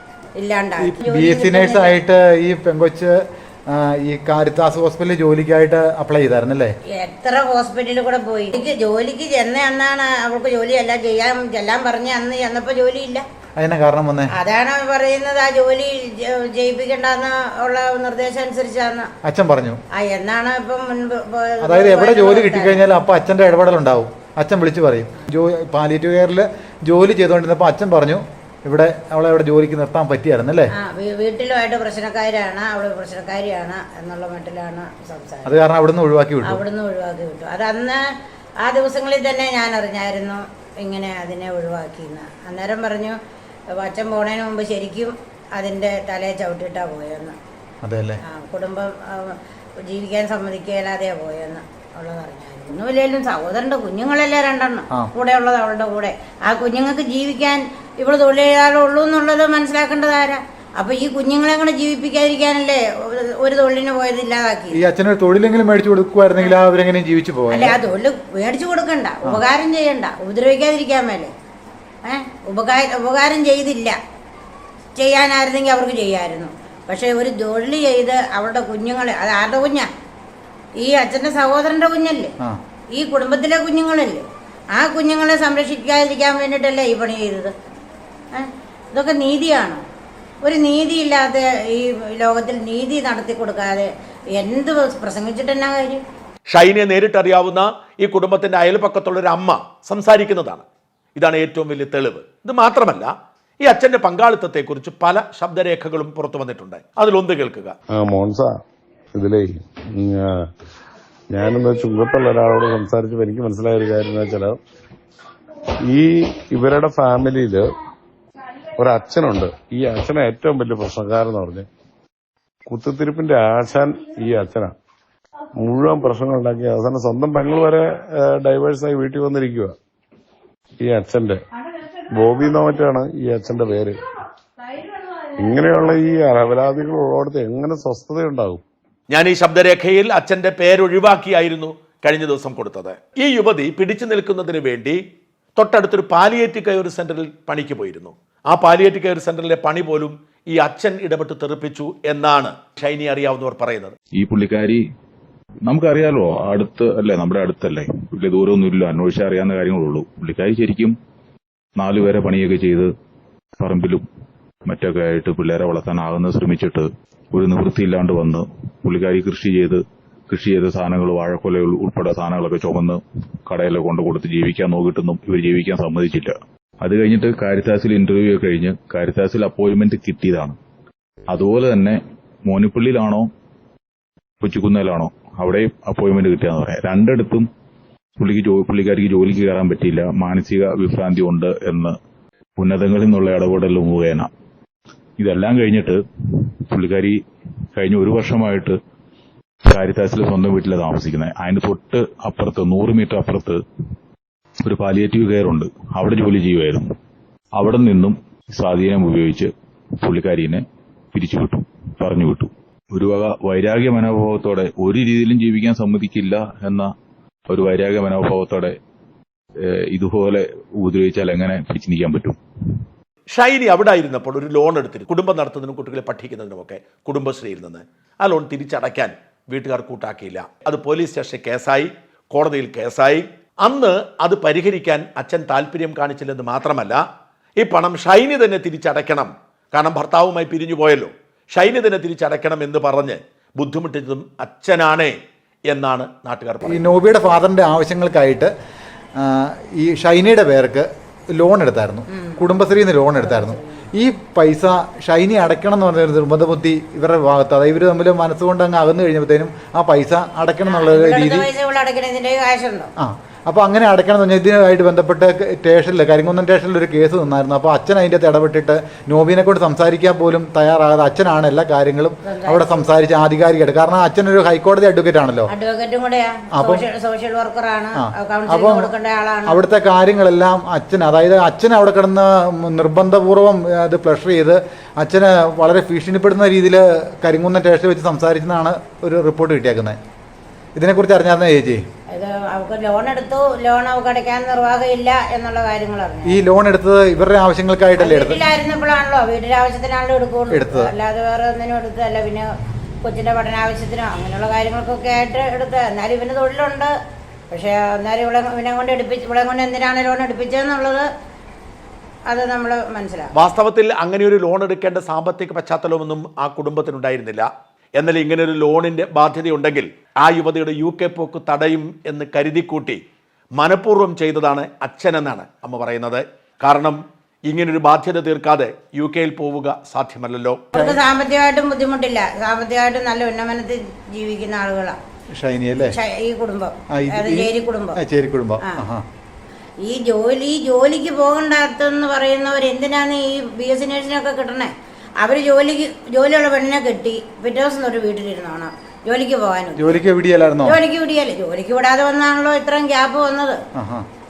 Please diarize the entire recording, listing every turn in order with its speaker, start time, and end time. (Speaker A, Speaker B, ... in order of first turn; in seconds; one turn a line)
Speaker A: 0.4-2.0
Speaker B: 0.8-6.7
Speaker A: 7.0-13.2
Speaker B: 13.6-14.3
Speaker A: 14.3-19.1
Speaker B: 19.2-19.8
Speaker A: 19.9-22.9
Speaker B: 21.6-30.7
Speaker A: 30.8-35.5
Speaker B: 35.5-36.6
Speaker A: 36.5-38.0
Speaker A: 38.6-43.2
Speaker A: 43.8-47.4
Speaker B: 47.8-48.2
Speaker A: 48.3-64.8
Speaker B: 64.7-67.8
Speaker A: 67.5-71.3
Speaker A: 72.0-74.0
Speaker A: 75.0-79.9
Speaker A: 80.8-82.3
Speaker A: 83.0-87.5
Speaker A: 88.3-89.8
Speaker A: 90.4-96.0
Speaker C: 96.5-100.7
Speaker C: 101.2-103.1
Speaker C: 103.6-107.8
Speaker D: 107.9-108.6
Speaker D: 109.2-110.5
Speaker D: 111.3-114.6
Speaker D: 115.8-117.7
Speaker D: 118.8-121.7
Speaker D: 122.7-124.8
Speaker D: 125.6-129.8
Speaker D: 130.8-131.4
Speaker D: 132.1-134.0
Speaker D: 135.4-138.6
Speaker C: 139.1-145.0
Speaker C: 145.6-153.9
Speaker E: 154.2-154.8
Speaker E: 155.7-160.9
Speaker E: 161.8-162.9
Speaker E: 163.6-164.0
Speaker E: 164.7-180.6
Speaker E: 181.3-183.3
Speaker E: 184.4-187.5
Speaker E: 188.2-191.9
Speaker E: 192.6-194.3
Speaker E: 195.2-197.2
Speaker E: 197.7-198.8
Speaker E: 199.7-203.6
Speaker E: 204.6-206.9
Speaker E: 207.6-216.9
Speaker E: 217.5-218.7
Speaker E: 219.6-222.8
Speaker C: 223.3-237.0
Speaker C: 237.6-245.2
Speaker C: 245.7-246.9
Speaker B: 246.6-248.5
Speaker B: 249.2-261.5
Speaker A: 252.1-252.6
Speaker A: 253.2-253.8
Speaker A: 260.7-262.9
Speaker B: 263.0-275.5
Speaker A: 272.2-272.9
Speaker A: 275.5-279.6
Speaker B: 276.5-276.8
Speaker B: 278.0-278.9
Speaker B: 279.5-290.0
Speaker B: 290.8-291.8
Speaker A: 292.1-296.4
Speaker B: 296.3-298.4
Speaker A: 298.0-302.5
Speaker B: 300.5-300.9
Speaker A: 303.0-306.9
Speaker A: 307.5-311.1
Speaker A: 312.3-313.3
Speaker C: 313.4-323.0
Speaker C: 323.6-330.7
Speaker B: 330.7-331.0
Speaker A: 330.8-335.0
Speaker B: 335.4-336.0
Speaker A: 335.9-338.0
Speaker B: 337.0-339.0
Speaker A: 339.9-344.7
Speaker A: 345.2-350.0
Speaker B: 349.8-350.8
Speaker A: 350.6-353.6
Speaker B: 353.8-354.1